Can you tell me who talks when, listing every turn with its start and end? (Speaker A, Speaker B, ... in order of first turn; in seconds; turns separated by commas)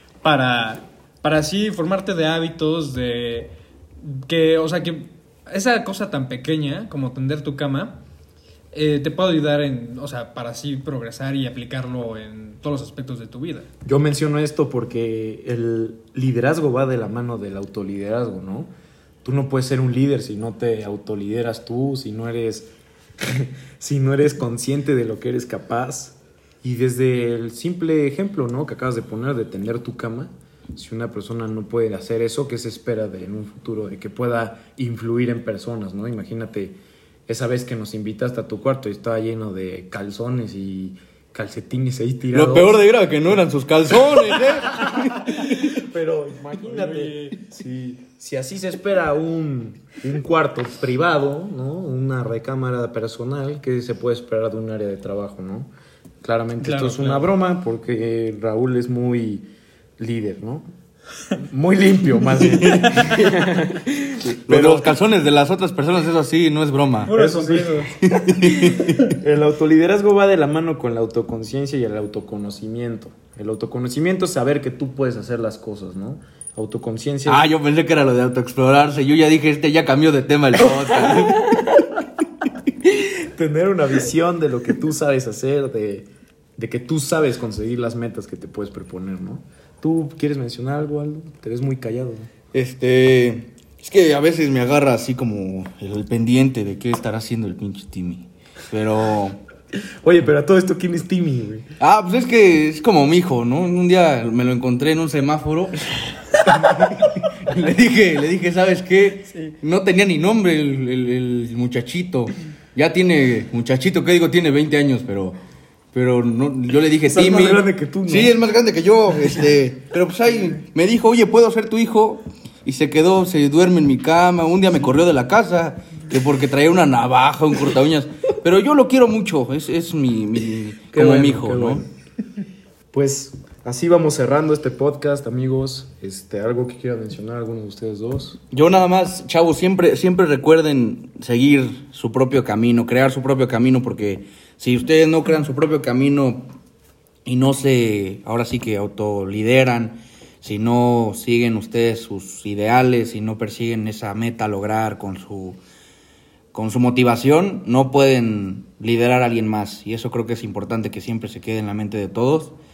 Speaker A: 0.2-8.0, Speaker A: 8.7-13.7, Speaker B: 13.8-18.7, Speaker B: 19.2-22.7, Speaker B: 23.2-36.8, Speaker B: 37.3-42.8, Speaker C: 42.3-45.7, Speaker B: 45.6-55.7, Speaker A: 46.5-47.4, Speaker B: 56.2-59.5, Speaker A: 56.6-57.3, Speaker B: 60.0-60.6, Speaker B: 61.4-64.9, Speaker C: 62.6-63.4, Speaker C: 64.3-67.1, Speaker A: 67.1-67.9, Speaker B: 67.1-77.5, Speaker C: 68.0-69.0, Speaker C: 77.3-81.6, Speaker B: 83.3-92.3, Speaker C: 92.5-99.4, Speaker B: 100.0-101.7, Speaker C: 101.8-115.4, Speaker A: 109.3-109.6, Speaker C: 115.9-131.8, Speaker B: 117.1-118.4, Speaker B: 130.9-131.9, Speaker B: 132.9-138.4, Speaker C: 138.5-146.5, Speaker C: 147.3-155.6, Speaker C: 156.5-162.6